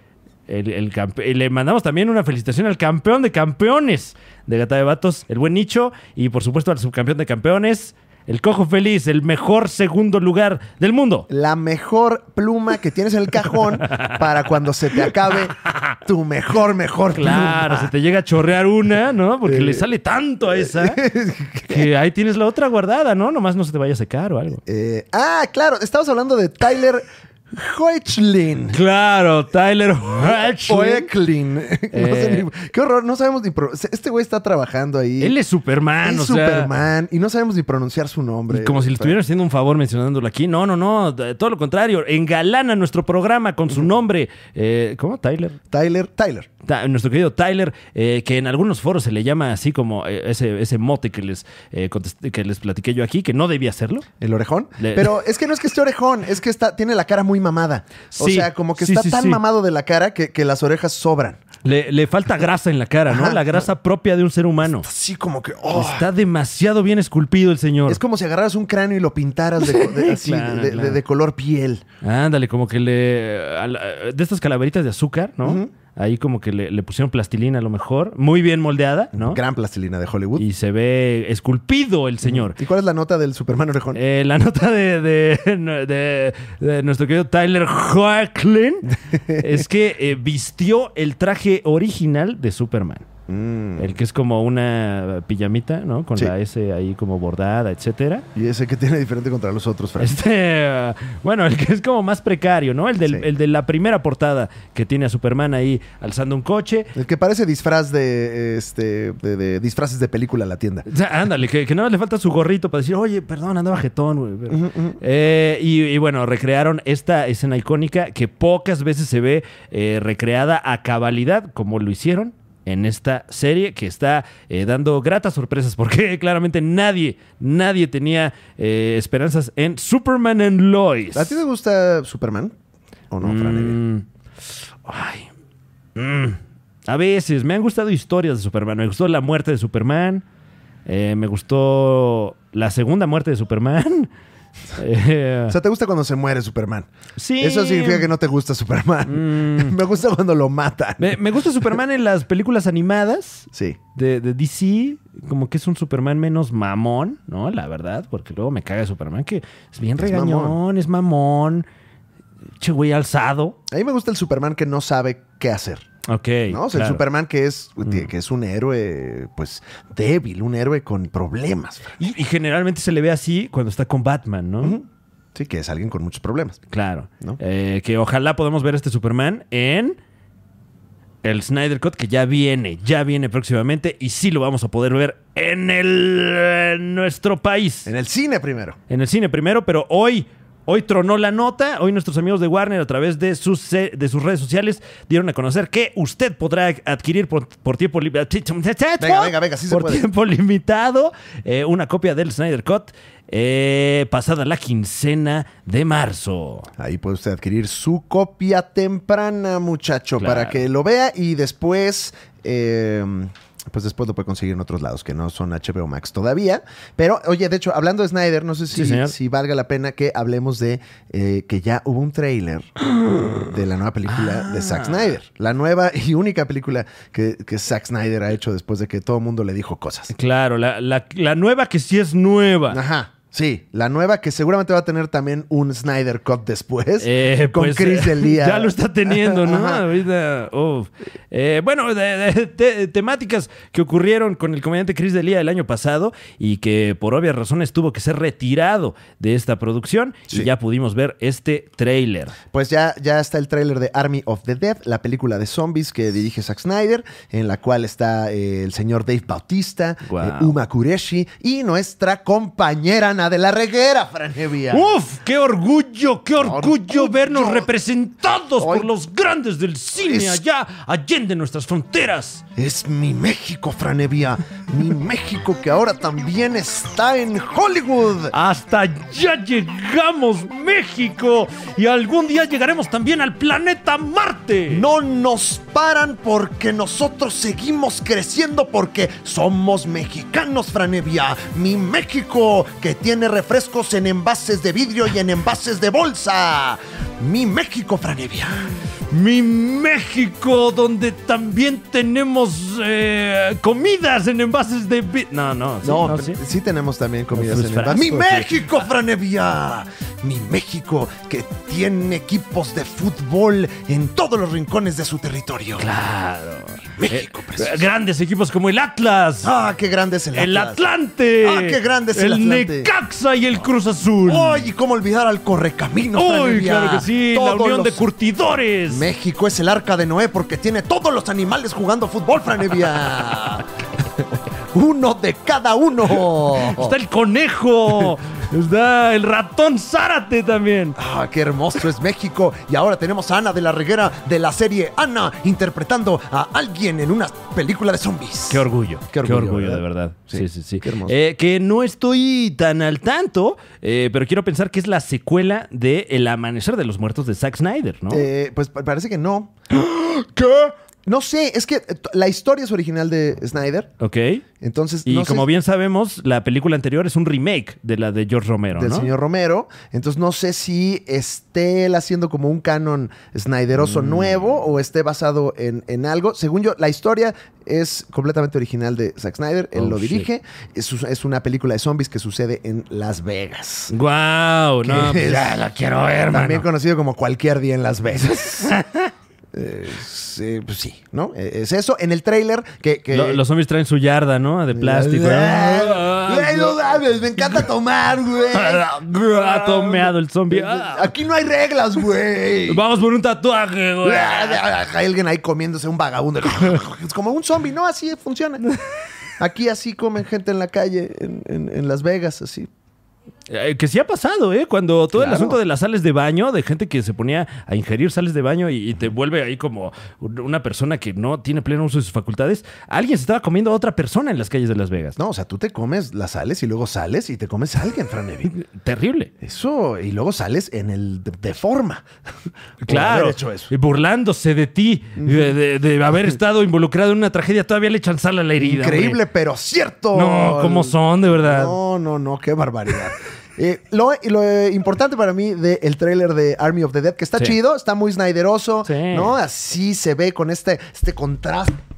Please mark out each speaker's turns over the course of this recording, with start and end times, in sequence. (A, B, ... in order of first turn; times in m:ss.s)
0:00.5-0:11.3 A
0:11.3-0:17.9 B
0:13.9-0:14.2 A
0:17.1-0:21.0 A
0:19.4-0:19.9 B
0:20.5-0:21.9 B
0:21.7-0:24.6 A
0:24.6-0:28.8 B
0:28.7-0:31.1 A
0:30.2-0:35.3 B
0:31.9-0:32.5 A
0:35.2-0:36.7 A
0:36.0-0:39.2 B
0:38.5-0:45.6 A
0:45.7-0:46.5 B
0:46.6-0:54.0 A
0:54.2-1:01.4 B
0:54.8-0:55.1 A
0:58.1-0:59.4 A
1:01.6-1:04.8 A
1:03.1-1:03.6 B
1:04.8-1:06.1 B
1:05.7-1:08.0 A
1:07.9-1:11.8 B
1:09.6-1:11.0 A
1:12.0-1:19.4 A
1:15.4-1:15.7 B
1:19.1-1:20.4 B
1:20.4-1:22.6 A
1:22.2-1:24.0 B
1:23.9-1:33.1 A
1:28.9-1:29.6 B
1:33.3-1:33.9 B
1:33.8-1:38.2 A
1:38.3-1:40.2 B
1:40.0-1:46.9 A
1:46.9-1:50.8 B
1:50.9-2:11.4 A
1:54.5-1:55.0 B
2:11.1-2:12.5 B
2:13.1-2:13.8 B
2:13.2-2:14.0 A
2:14.8-2:15.3 A
2:16.0-2:20.2 A
2:20.8-2:24.1 A
2:24.7-2:25.6 A
2:25.5-2:26.9 B
2:27.2-2:28.1 A
2:27.4-2:31.2 B
2:29.1-2:29.7 A
2:31.0-2:41.6 A
2:33.5-2:33.8 B
2:40.0-2:40.6 B
2:42.6-2:43.6 A
2:43.7-2:45.8 B
2:46.1-2:47.0 A
2:46.5-2:52.0 B
2:52.0-2:54.8 A
2:54.6-2:56.6 B
2:56.7-3:00.0 A
3:01.2-3:07.9 A
3:07.8-3:08.8 B
3:08.9-3:26.7 A
3:19.0-3:20.0 B
3:26.8-3:42.7 B
3:30.2-3:30.6 A
3:38.7-3:39.1 A
3:42.8-3:43.5 A
3:43.4-3:50.1 B
3:44.1-3:45.1 A
3:50.1-3:52.8 A
3:52.7-3:59.8 B
3:57.0-4:12.4 A
4:12.5-4:24.9 B
4:20.1-4:20.6 A
4:24.7-4:32.4 A
4:26.4-4:27.7 B
4:28.6-4:28.9 B
4:30.0-4:30.4 B
4:32.6-4:38.3 B
4:38.3-4:44.8 A
4:44.7-4:58.7 B
4:59.1-5:06.4 A
5:05.8-5:15.9 B
5:07.3-5:08.7 A
5:15.8-5:19.5 A
5:17.0-5:17.8 B
5:19.4-5:20.8 B
5:20.3-5:24.6 A
5:21.4-5:22.9 B
5:24.2-5:28.0 B
5:26.1-5:29.1 A
5:28.9-5:37.0 B
5:36.5-5:41.0 A
5:41.0-5:51.2 B
5:48.5-5:58.3 A
5:58.1-5:59.5 B
5:59.7-6:00.7 A
6:01.0-6:03.9 B
6:04.0-6:04.4 A
6:04.6-6:05.5 B
6:05.0-6:09.1 A
6:08.7-6:23.9 B
6:13.8-6:14.4 A
6:19.7-6:20.3 A
6:23.9-6:26.7 A
6:24.8-6:25.6 B
6:26.3-6:28.8 B
6:28.6-6:29.1 A
6:29.5-6:33.4 B
6:33.1-6:36.9 A
6:34.7-6:42.8 B
6:38.5-6:41.1 A
6:42.7-6:44.6 A
6:44.0-6:48.6 B
6:49.4-6:52.7 B
6:53.5-7:05.2 A
6:55.1-6:55.6 B
7:05.2-7:08.5 B
7:08.4-7:09.3 A
7:09.4-7:12.0 B
7:12.8-7:19.2 A
7:12.8-7:13.7 B
7:15.2-7:15.5 B
7:18.6-7:31.8 B
7:20.1-7:21.7 A
7:28.8-7:29.3 A